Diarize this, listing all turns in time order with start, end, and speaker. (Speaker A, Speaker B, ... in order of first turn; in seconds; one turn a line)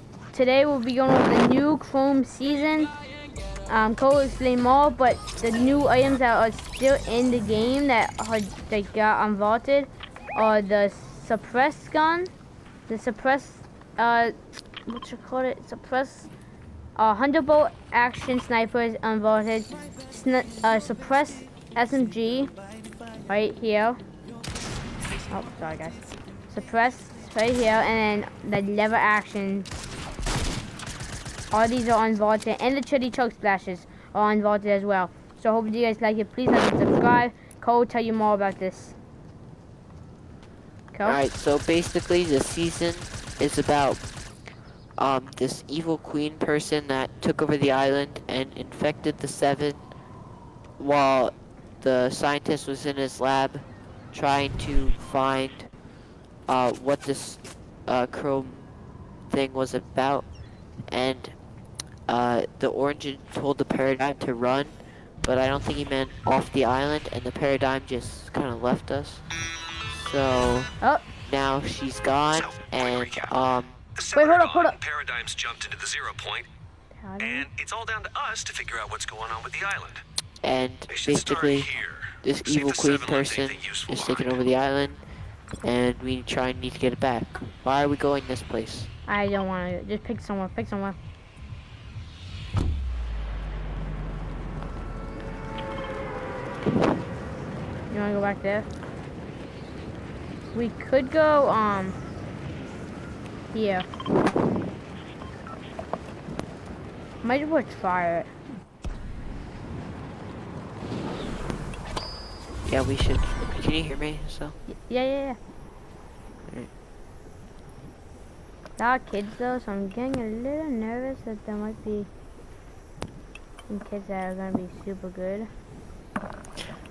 Speaker A: 0.3-2.9
Speaker A: 3.6-12.3
Speaker A: 12.9-14.3
Speaker A: 14.9-16.3
Speaker A: 16.9-22.5
Speaker A: 23.2-24.0
Speaker A: 25.3-29.7
Speaker A: 31.5-39.0
Speaker A: 40.9-41.2
Speaker B: 41.0-44.0
Speaker B: 45.0-49.8
Speaker B: 50.8-55.7
Speaker B: 56.5-58.7
Speaker B: 59.3-60.2
Speaker B: 60.9-61.3
Speaker B: 62.1-69.2
Speaker B: 70.0-70.7
Speaker B: 71.3-73.8
Speaker A: 74.1-74.8
Speaker C: 74.8-76.4
Speaker A: 77.0-77.5
Speaker C: 77.5-80.0
Speaker B: 80.4-85.0
Speaker B: 85.6-88.9
Speaker A: 89.1-91.0
Speaker A: 97.9-98.7
Speaker A: 100.5-102.0
Speaker A: 103.5-103.9
Speaker A: 107.2-108.3
Speaker B: 112.6-114.5
Speaker A: 114.7-115.4
Speaker A: 118.8-122.1
Speaker A: 123.7-125.5